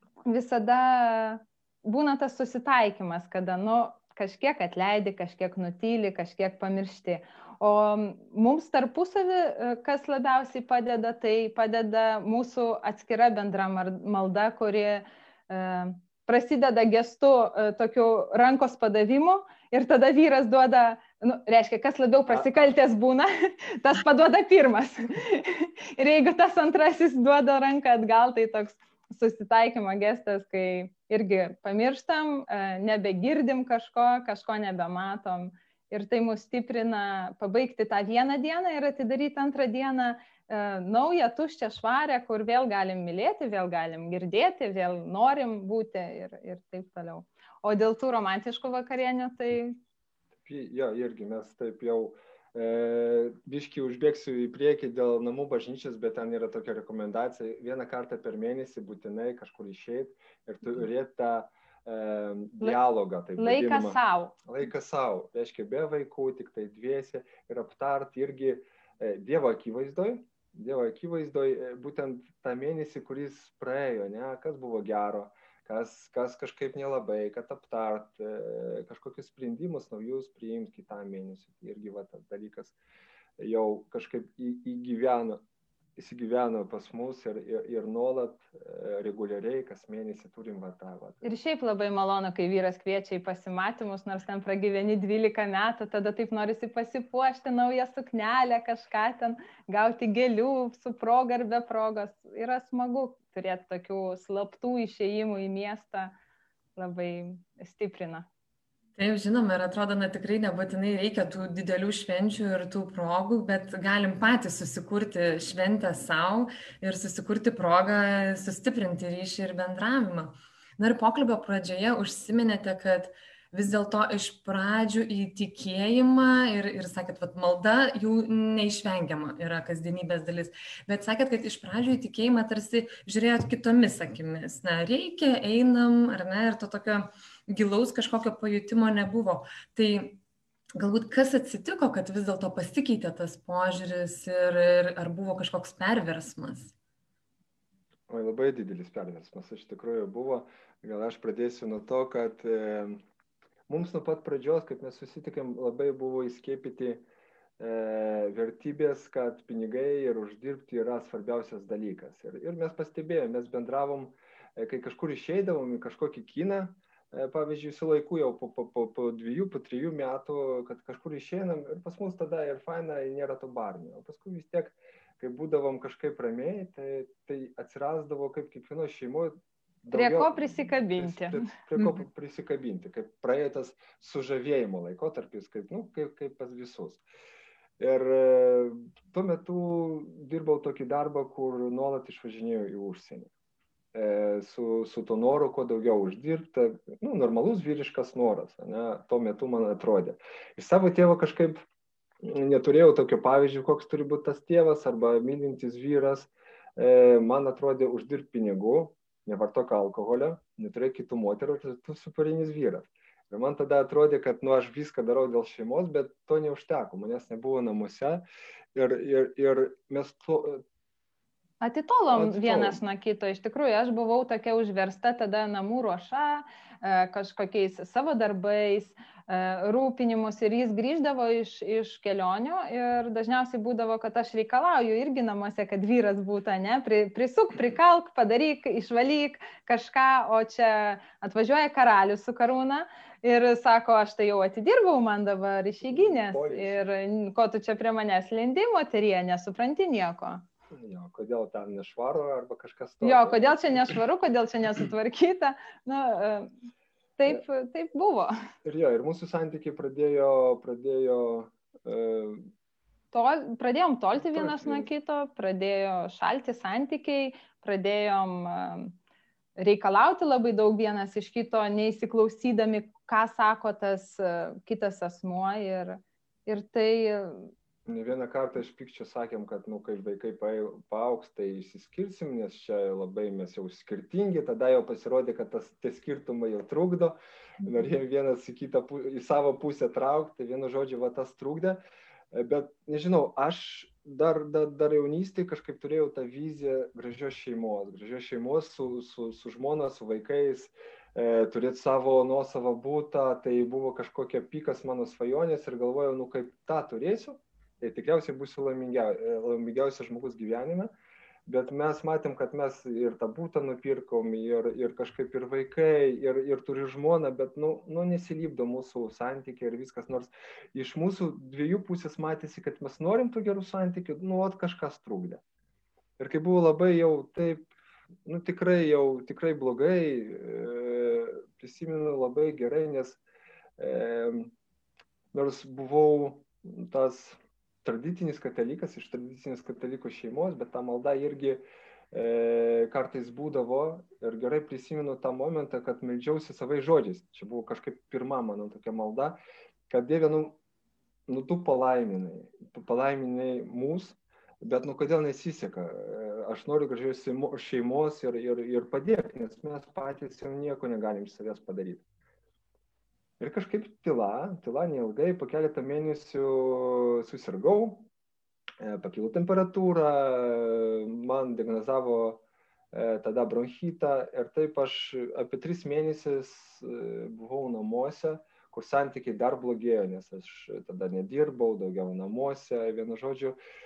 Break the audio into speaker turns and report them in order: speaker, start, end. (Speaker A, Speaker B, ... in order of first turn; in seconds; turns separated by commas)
Speaker A: 0.3-49.8, Speaker B: 50.4-82.8, Speaker A: 63.4-64.3, Speaker B: 83.4-85.4, Speaker B: 86.0-91.2, Speaker A: 91.2-106.1, Speaker A: 106.8-108.2, Speaker C: 109.0-140.2, Speaker C: 140.8-146.7, Speaker B: 148.1-153.0, Speaker B: 153.7-157.0, Speaker B: 157.6-187.0, Speaker A: 179.9-181.5, Speaker B: 187.8-193.3, Speaker B: 193.9-201.6, Speaker B: 202.2-218.2, Speaker B: 218.8-220.6, Speaker A: 221.6-250.4, Speaker B: 222.1-222.8, Speaker B: 245.8-246.9, Speaker B: 250.7-253.9, Speaker A: 253.0-256.5, Speaker A: 257.2-258.3, Speaker B: 258.6-262.5, Speaker A: 263.1-268.9, Speaker B: 264.1-264.9, Speaker A: 269.6-277.5, Speaker B: 277.9-291.8, Speaker B: 292.3-310.9, Speaker B: 311.4-325.4, Speaker B: 326.2-327.7, Speaker B: 328.2-333.2, Speaker B: 333.8-334.5, Speaker B: 335.3-350.6, Speaker B: 351.3-362.0, Speaker B: 363.4-368.1, Speaker B: 368.8-383.6